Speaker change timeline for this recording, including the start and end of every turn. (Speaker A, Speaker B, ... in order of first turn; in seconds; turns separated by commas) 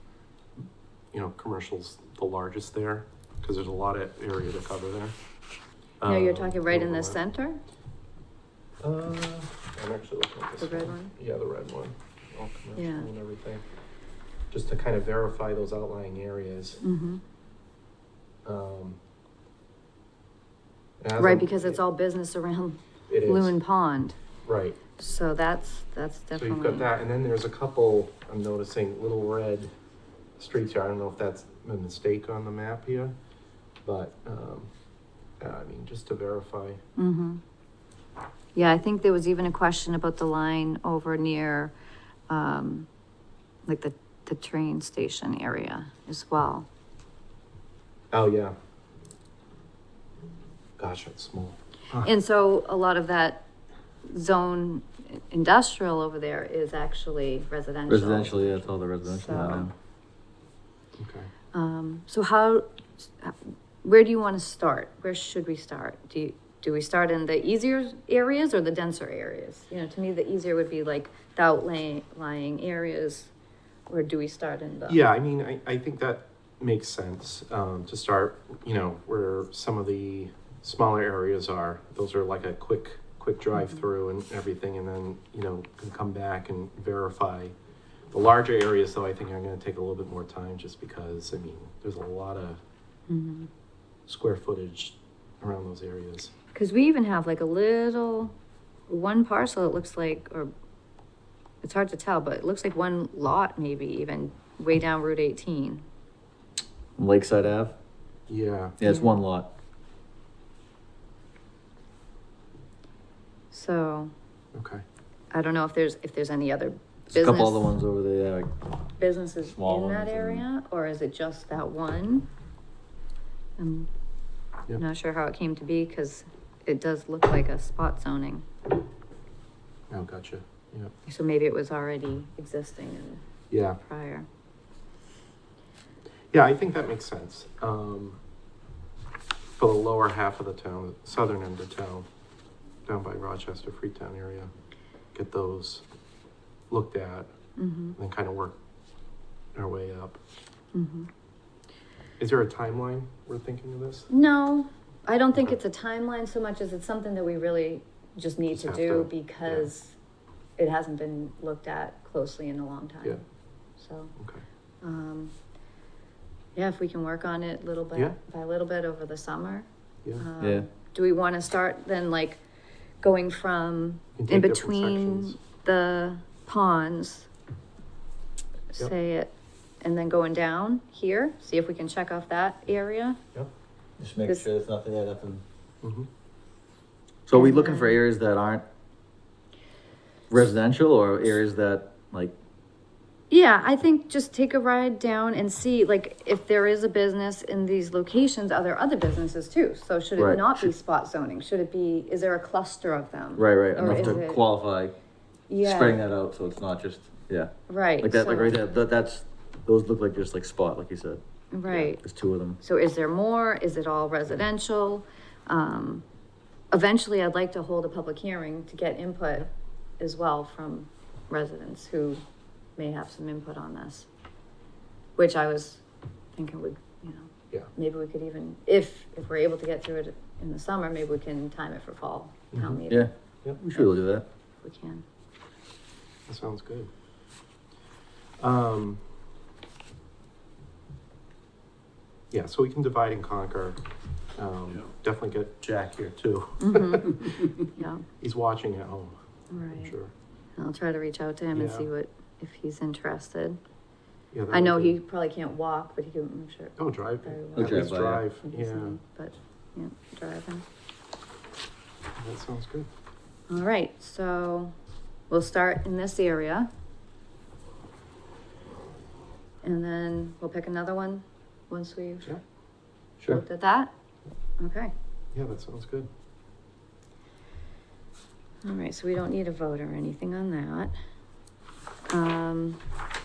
Speaker A: 1.1-5.2, Speaker A: 6.0-7.2, Speaker B: 6.0-7.6, Speaker A: 8.8-13.6, Speaker B: 10.6-11.1, Speaker B: 12.8-13.1, Speaker A: 14.5-16.8, Speaker B: 16.8-17.2, Speaker A: 18.4-19.0, Speaker A: 21.0-21.8, Speaker B: 21.2-24.2, Speaker A: 23.1-23.6, Speaker A: 24.5-24.8, Speaker B: 25.0-26.9, Speaker A: 26.3-29.7, Speaker A: 30.4-33.1, Speaker A: 33.9-34.7, Speaker A: 35.4-36.8, Speaker B: 37.0-37.4, Speaker B: 38.5-41.7, Speaker B: 42.3-42.9, Speaker B: 43.7-46.7, Speaker A: 48.1-48.5, Speaker A: 50.8-52.1, Speaker B: 52.0-53.5, Speaker B: 54.1-59.7, Speaker C: 57.9-59.7, Speaker A: 61.0-61.3, Speaker B: 61.5-73.3, Speaker B: 73.9-75.0, Speaker A: 74.9-87.5, Speaker A: 88.1-92.6, Speaker B: 93.1-93.5, Speaker A: 94.1-96.3, Speaker B: 96.5-98.3, Speaker B: 98.9-100.5, Speaker B: 101.6-105.8, Speaker C: 107.0-107.8, Speaker A: 108.3-108.8, Speaker C: 108.8-109.5, Speaker B: 108.8-109.2, Speaker B: 113.5-114.1, Speaker A: 114.5-114.8, Speaker B: 115.3-117.7, Speaker C: 117.1-118.6, Speaker B: 119.0-122.3, Speaker C: 119.4-120.5, Speaker B: 123.6-123.9, Speaker B: 124.8-128.5, Speaker A: 129.9-130.9, Speaker B: 131.1-133.2, Speaker A: 133.5-133.8, Speaker B: 133.8-134.3, Speaker A: 136.3-138.2, Speaker A: 139.6-142.1, Speaker A: 142.9-144.5, Speaker A: 145.1-145.8, Speaker A: 146.7-147.3, Speaker B: 147.6-148.0, Speaker A: 148.0-148.6, Speaker A: 149.6-150.2, Speaker B: 150.7-151.1, Speaker A: 152.2-154.1, Speaker B: 154.1-159.9, Speaker A: 158.5-159.7, Speaker B: 160.6-163.2, Speaker B: 163.8-164.1, Speaker A: 164.2-164.4, Speaker B: 164.8-165.3, Speaker B: 166.6-169.7, Speaker B: 170.2-172.4, Speaker C: 170.4-170.7, Speaker B: 173.0-177.3, Speaker A: 174.2-175.4, Speaker B: 178.7-183.2, Speaker C: 184.0-185.4, Speaker A: 185.8-186.1, Speaker C: 187.3-188.7, Speaker B: 187.3-188.0, Speaker C: 190.3-192.3, Speaker B: 193.3-204.4, Speaker C: 200.2-200.7, Speaker C: 203.4-205.0, Speaker A: 203.8-204.2, Speaker B: 205.5-206.0, Speaker C: 205.6-211.2, Speaker B: 207.7-208.6, Speaker B: 211.5-212.0, Speaker C: 211.8-212.6, Speaker B: 212.6-216.1, Speaker B: 216.7-219.5, Speaker B: 220.0-222.2, Speaker B: 222.8-224.1, Speaker B: 225.2-225.8, Speaker B: 226.3-233.1, Speaker A: 232.5-232.8, Speaker C: 232.9-234.3, Speaker B: 234.6-235.0, Speaker A: 236.3-236.9, Speaker A: 238.4-239.0, Speaker A: 242.3-243.8, Speaker A: 244.4-247.7, Speaker B: 246.6-248.0, Speaker A: 248.2-249.2, Speaker B: 249.5-249.9, Speaker A: 249.7-250.1, Speaker B: 250.6-253.6, Speaker A: 251.5-251.9, Speaker A: 254.3-255.0, Speaker B: 254.5-260.6, Speaker A: 256.8-259.0, Speaker C: 257.6-258.2, Speaker A: 262.2-262.9, Speaker B: 263.5-264.7, Speaker B: 265.3-266.7, Speaker B: 269.6-272.3, Speaker B: 273.3-273.9, Speaker B: 274.6-274.9, Speaker A: 275.3-276.1, Speaker B: 278.6-280.9, Speaker B: 282.1-282.8